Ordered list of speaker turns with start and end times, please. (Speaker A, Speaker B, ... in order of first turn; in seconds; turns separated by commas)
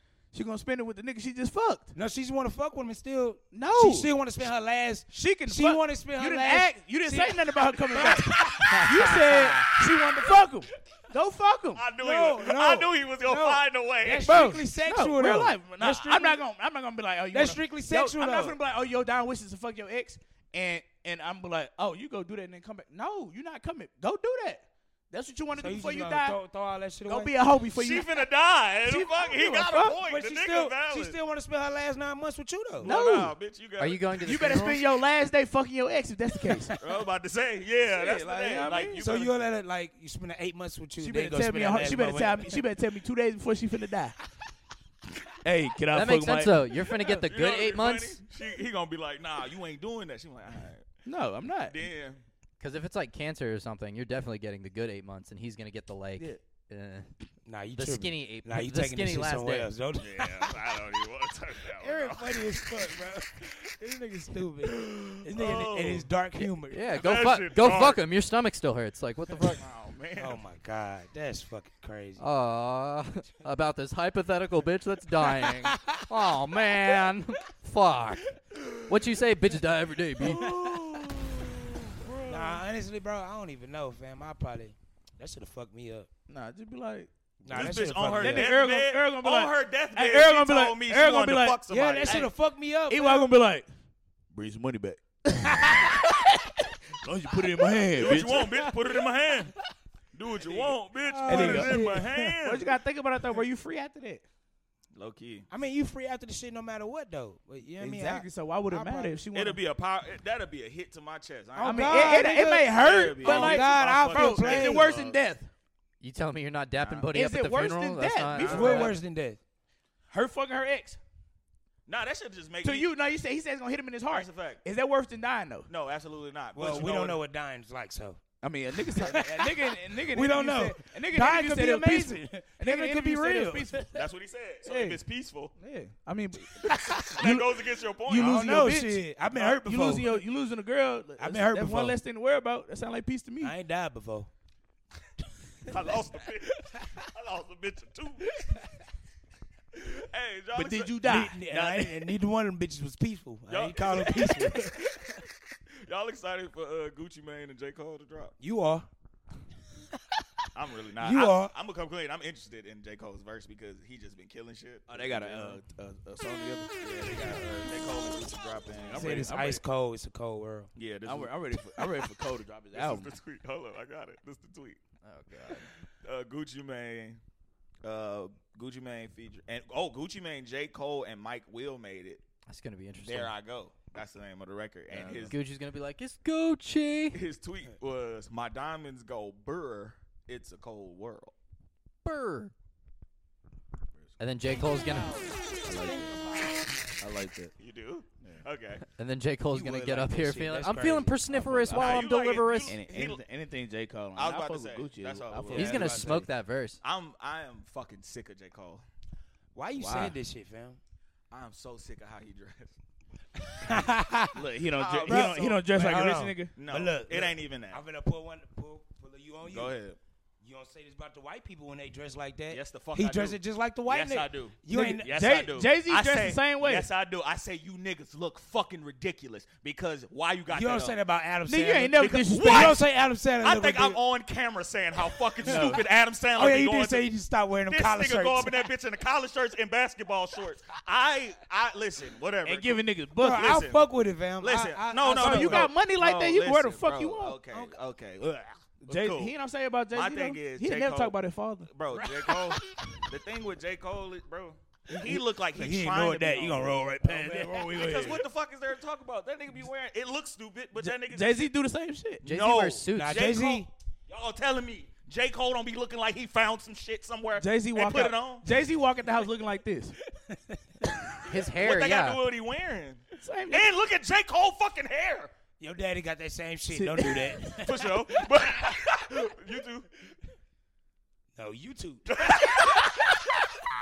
Speaker A: 0.3-1.9, Speaker B: 1.9-9.8, Speaker A: 3.5-4.1, Speaker A: 5.1-11.8, Speaker C: 11.8-14.5, Speaker B: 12.0-16.4, Speaker A: 14.2-26.4, Speaker B: 17.3-18.6, Speaker B: 25.6-27.3, Speaker A: 27.1-28.2, Speaker C: 27.7-31.2, Speaker A: 28.8-30.0, Speaker B: 30.1-32.9, Speaker C: 32.8-34.5, Speaker A: 32.8-33.3, Speaker D: 33.8-34.8, Speaker A: 34.2-36.7, Speaker C: 36.8-39.5, Speaker A: 37.9-39.1, Speaker B: 39.0-42.6, Speaker A: 41.0-44.1, Speaker A: 45.4-46.8, Speaker D: 45.9-48.2, Speaker C: 47.0-50.9, Speaker A: 51.0-51.8, Speaker C: 51.6-52.2, Speaker D: 52.6-57.1, Speaker B: 57.5-60.5, Speaker D: 57.7-59.7, Speaker C: 60.0-62.7, Speaker B: 61.8-66.9, Speaker C: 64.7-66.1, Speaker D: 66.7-69.6, Speaker C: 66.9-68.0, Speaker C: 69.4-70.4, Speaker B: 70.2-72.2, Speaker D: 72.2-80.5, Speaker B: 75.7-75.9, Speaker C: 80.2-82.6, Speaker B: 80.3-80.5, Speaker B: 82.3-86.1, Speaker A: 86.3-92.3, Speaker B: 87.4-88.5, Speaker C: 87.5-92.3, Speaker B: 91.7-93.3, Speaker A: 92.9-93.7, Speaker A: 94.3-98.7, Speaker C: 98.0-99.5, Speaker C: 100.1-102.7, Speaker B: 101.0-102.0, Speaker A: 101.2-104.2, Speaker C: 104.9-105.5, Speaker B: 105.5-109.2, Speaker A: 107.8-109.6, Speaker C: 109.3-115.2, Speaker B: 111.5-114.9, Speaker A: 111.6-115.5, Speaker D: 116.0-118.9, Speaker C: 116.8-117.1, Speaker A: 117.1-119.0, Speaker C: 118.4-118.8, Speaker B: 118.4-119.4, Speaker A: 120.1-121.0, Speaker C: 121.9-122.9, Speaker A: 122.6-125.7, Speaker C: 124.1-124.6, Speaker C: 125.7-127.2, Speaker B: 126.5-128.2, Speaker A: 128.4-134.1, Speaker B: 128.8-133.8, Speaker C: 133.9-135.5, Speaker A: 134.6-135.0, Speaker A: 135.6-143.6, Speaker B: 136.7-137.4, Speaker C: 136.9-138.7, Speaker B: 138.1-140.2, Speaker B: 141.2-142.0, Speaker B: 143.4-144.3, Speaker C: 145.7-148.3, Speaker C: 149.7-151.3, Speaker A: 150.5-152.0, Speaker B: 151.0-154.9, Speaker C: 153.5-154.8, Speaker C: 155.8-158.3, Speaker B: 158.4-158.9, Speaker C: 160.5-165.6, Speaker B: 161.0-161.5, Speaker A: 164.9-167.4, Speaker C: 166.8-169.3, Speaker A: 168.8-169.6, Speaker B: 168.9-170.7, Speaker C: 170.8-171.9, Speaker A: 171.0-173.2, Speaker C: 172.7-174.8, Speaker D: 175.0-175.7, Speaker C: 176.0-177.2, Speaker C: 177.8-182.2, Speaker D: 182.5-183.3, Speaker C: 183.0-185.3, Speaker A: 184.9-185.3, Speaker D: 185.3-187.2, Speaker C: 187.1-191.3, Speaker D: 192.0-192.5, Speaker D: 194.2-195.3, Speaker B: 194.8-196.6, Speaker A: 195.6-196.4, Speaker A: 196.9-197.5, Speaker C: 197.6-198.8, Speaker D: 198.9-202.7, Speaker B: 199.5-201.2, Speaker A: 201.3-202.1, Speaker C: 201.7-203.2, Speaker A: 202.6-206.3, Speaker C: 204.1-206.1, Speaker B: 205.5-206.3, Speaker D: 205.5-206.8, Speaker C: 206.8-208.8, Speaker B: 209.5-210.8, Speaker A: 209.8-210.2, Speaker C: 211.3-212.7, Speaker B: 213.6-214.4, Speaker A: 214.3-216.5, Speaker C: 214.7-215.6, Speaker B: 215.1-219.8, Speaker C: 216.6-217.8, Speaker C: 219.4-220.0, Speaker B: 220.4-225.2, Speaker C: 222.5-231.0, Speaker A: 224.7-226.9, Speaker B: 230.5-234.0, Speaker A: 231.4-232.8, Speaker C: 232.0-232.8, Speaker C: 233.4-237.1, Speaker A: 235.4-235.8, Speaker B: 235.4-235.7, Speaker B: 236.3-238.7, Speaker C: 237.7-249.3, Speaker A: 242.4-243.6, Speaker B: 243.2-245.7, Speaker A: 245.1-247.4, Speaker B: 247.5-247.8, Speaker A: 248.8-252.5, Speaker C: 249.9-256.8, Speaker B: 255.0-257.8, Speaker A: 257.0-258.2, Speaker C: 257.7-261.5, Speaker A: 260.8-262.2, Speaker C: 262.2-268.5, Speaker D: 262.2-263.3, Speaker B: 262.9-263.7, Speaker A: 267.4-269.9, Speaker B: 270.3-270.6, Speaker D: 271.2-272.2, Speaker C: 271.5-275.3, Speaker A: 273.1-273.7, Speaker B: 275.6-277.9, Speaker A: 276.7-277.6, Speaker C: 277.6-279.9, Speaker B: 281.4-282.1, Speaker C: 282.1-283.2